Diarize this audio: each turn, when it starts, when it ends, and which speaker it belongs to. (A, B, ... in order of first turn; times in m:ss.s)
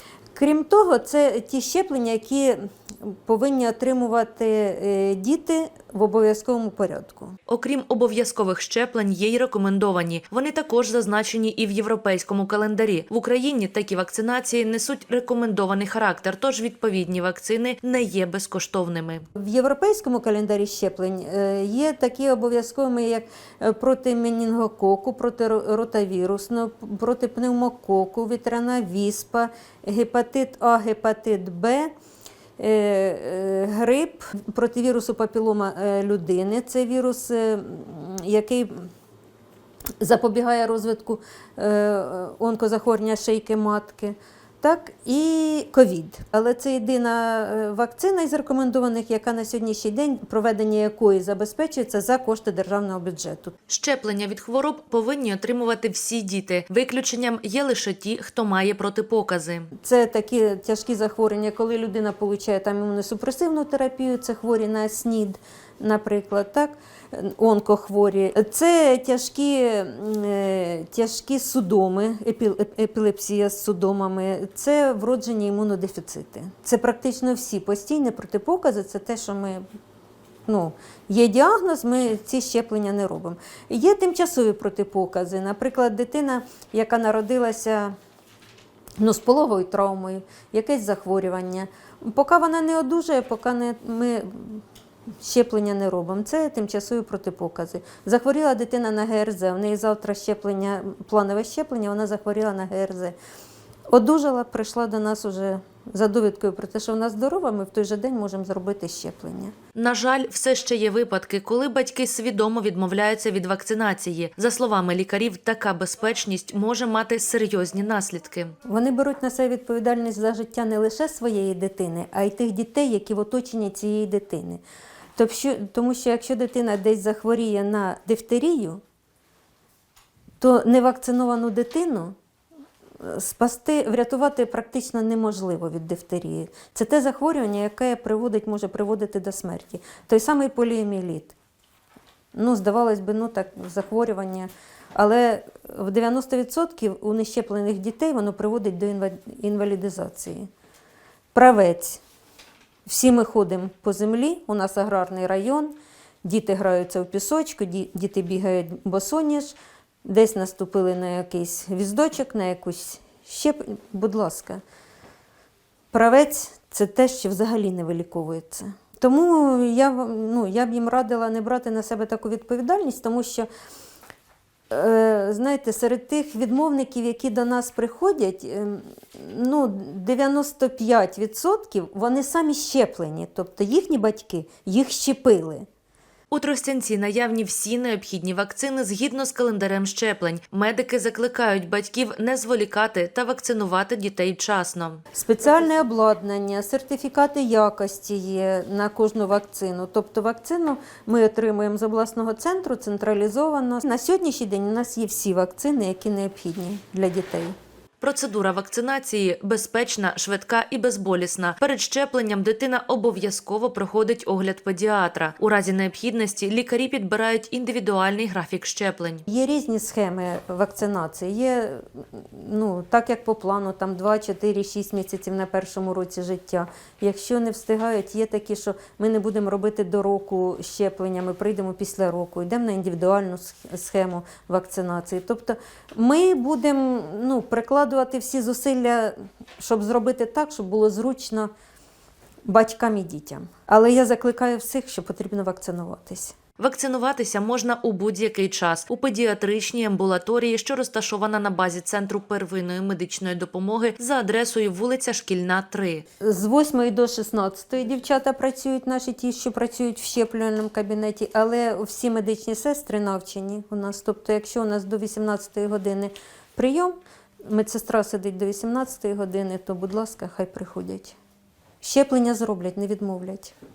0:00.3-0:07.3 A
0:07.5-0:19.2 B
0:19.4-0:31.9 A
0:32.6-0:38.9 A
0:40.0-0:53.5 A
0:53.7-0:59.7 B
0:59.8-1:19.6 A
1:20.5-1:27.9 A
1:29.0-1:34.6 A
1:35.2-1:43.2 A
1:43.9-1:49.5 A
1:49.7-1:58.5 B
1:58.6-2:04.6 A
2:05.2-2:08.8 A
2:10.4-2:12.1 A
2:13.0-2:21.3 A
2:22.3-2:30.5 A
2:31.3-2:32.0 A
2:32.8-2:44.6 A
2:45.9-2:53.5 A
2:54.7-3:05.6 A
3:06.3-3:15.0 B
3:15.1-3:27.5 A
3:28.0-3:39.2 B
3:39.3-4:01.5 A
4:02.4-4:06.3 A
4:06.6-4:16.0 B
4:16.2-4:31.2 A
4:31.8-4:33.5 A